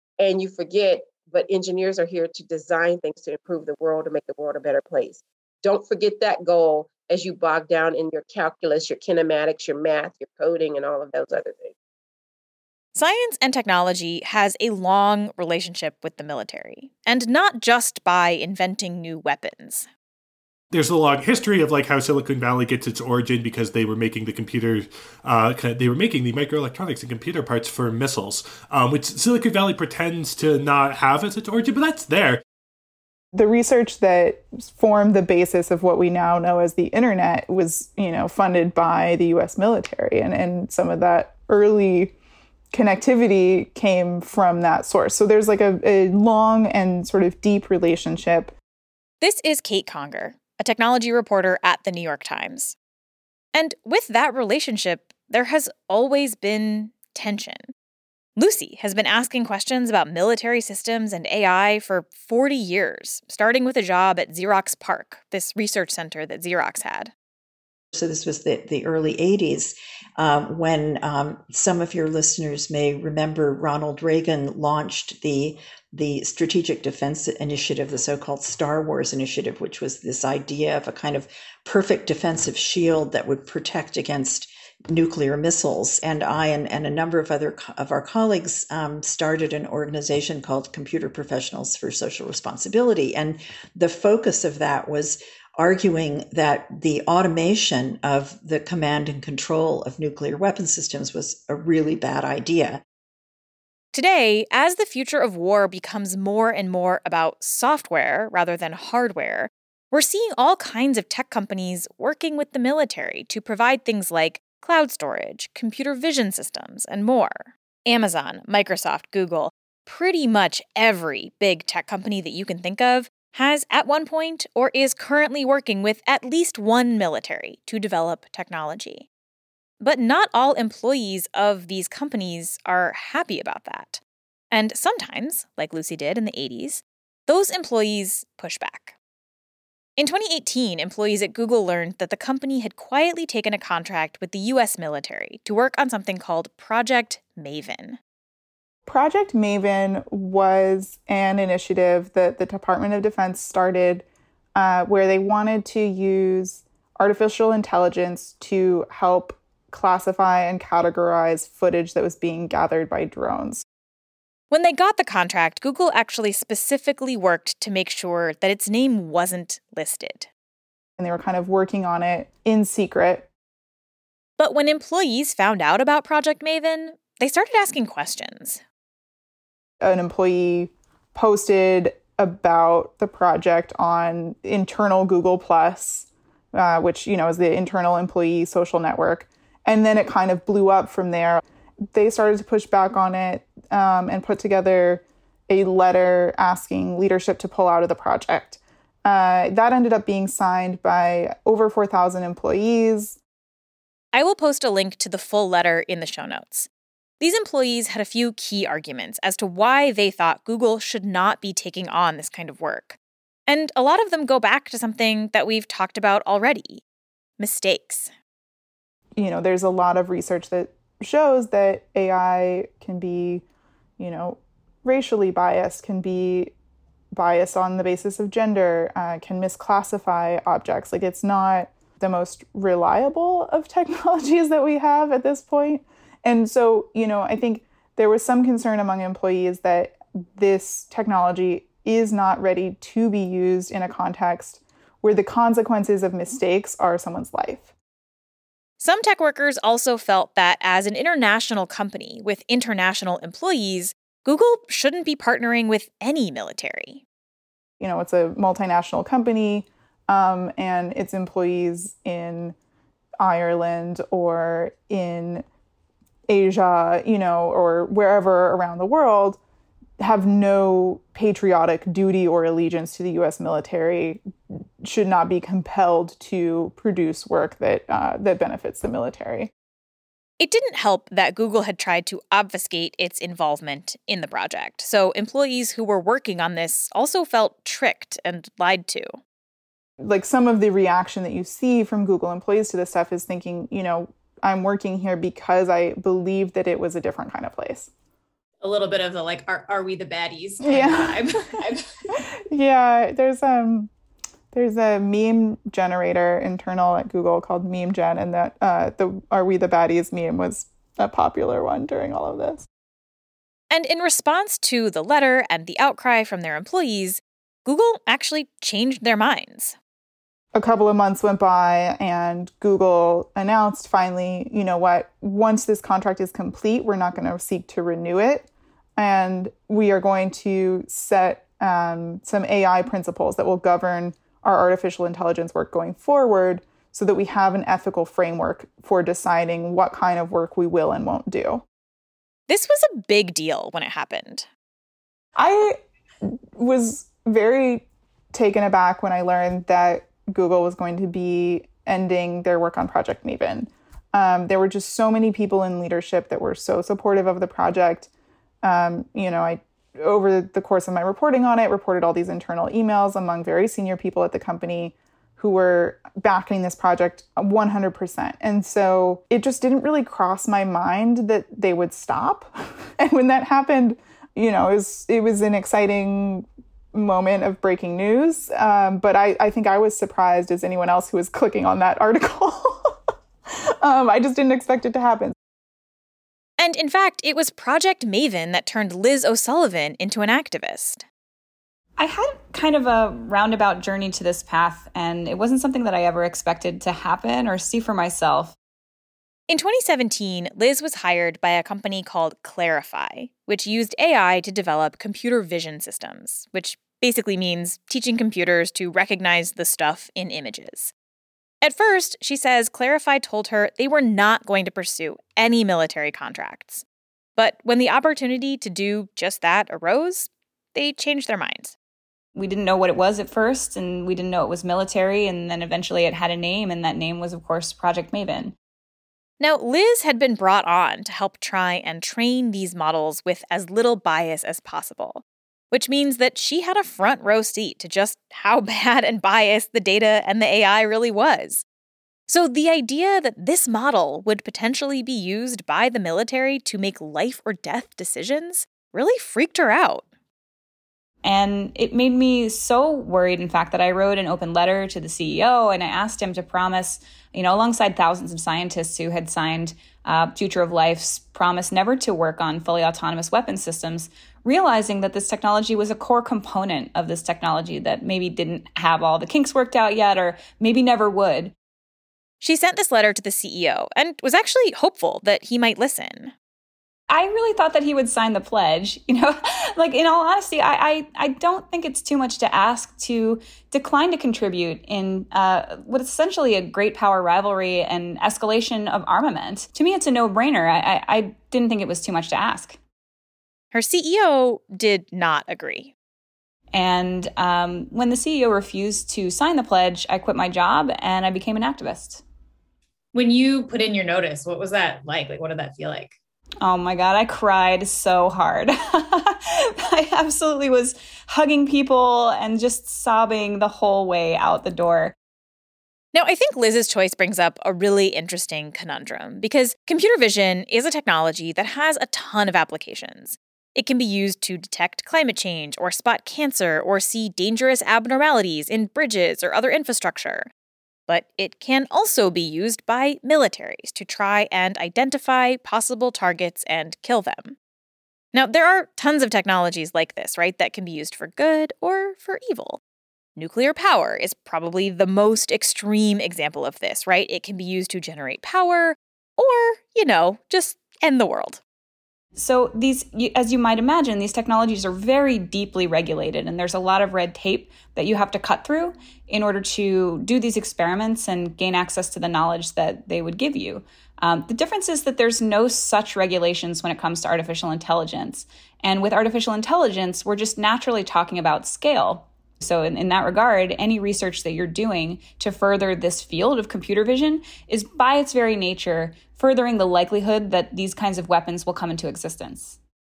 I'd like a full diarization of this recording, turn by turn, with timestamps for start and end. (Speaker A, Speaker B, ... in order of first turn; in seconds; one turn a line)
Speaker A: 0.2-11.7
Speaker B: 12.9-19.9
Speaker C: 20.7-32.4
Speaker D: 33.3-42.1
Speaker D: 42.7-48.5
Speaker B: 49.2-52.8
Speaker B: 53.5-57.7
Speaker B: 58.4-67.1
Speaker E: 67.9-102.8
Speaker B: 103.9-129.1
Speaker B: 129.8-138.9
Speaker B: 140.0-148.0
Speaker D: 148.9-163.6
Speaker B: 164.5-170.3
Speaker D: 171.0-173.3
Speaker B: 174.4-178.6
Speaker D: 179.8-203.2
Speaker B: 204.1-206.7
Speaker B: 207.2-216.8
Speaker B: 217.4-218.1
Speaker D: 219.2-223.4
Speaker D: 224.0-226.5
Speaker D: 227.1-247.7
Speaker B: 248.8-257.0
Speaker D: 257.8-262.6
Speaker D: 263.2-265.4
Speaker D: 266.3-269.4
Speaker D: 270.0-274.2
Speaker D: 274.8-279.5
Speaker B: 280.4-289.2
Speaker D: 290.0-297.9
Speaker F: 298.6-301.9
Speaker D: 300.6-301.2
Speaker D: 302.5-303.9
Speaker D: 304.5-312.7
Speaker B: 313.7-319.8
Speaker D: 320.5-341.6
Speaker B: 342.5-344.5
Speaker D: 345.4-345.8
Speaker D: 346.6-358.1
Speaker D: 358.6-383.0
Speaker D: 383.8-385.4
Speaker B: 386.6-391.1
Speaker G: 392.0-398.6
Speaker B: 399.5-410.9
Speaker B: 411.6-416.8
Speaker B: 417.4-421.8
Speaker G: 422.4-428.6
Speaker B: 429.4-441.6
Speaker B: 442.3-450.1
Speaker G: 451.2-471.5
Speaker B: 472.4-476.3
Speaker G: 477.1-492.8
Speaker B: 493.7-495.9
Speaker G: 496.7-502.2
Speaker F: 503.1-506.1
Speaker G: 506.6-515.1
Speaker B: 516.1-530.5
Speaker B: 531.1-537.6
Speaker B: 538.3-542.8
Speaker B: 543.4-551.6
Speaker G: 552.4-582.8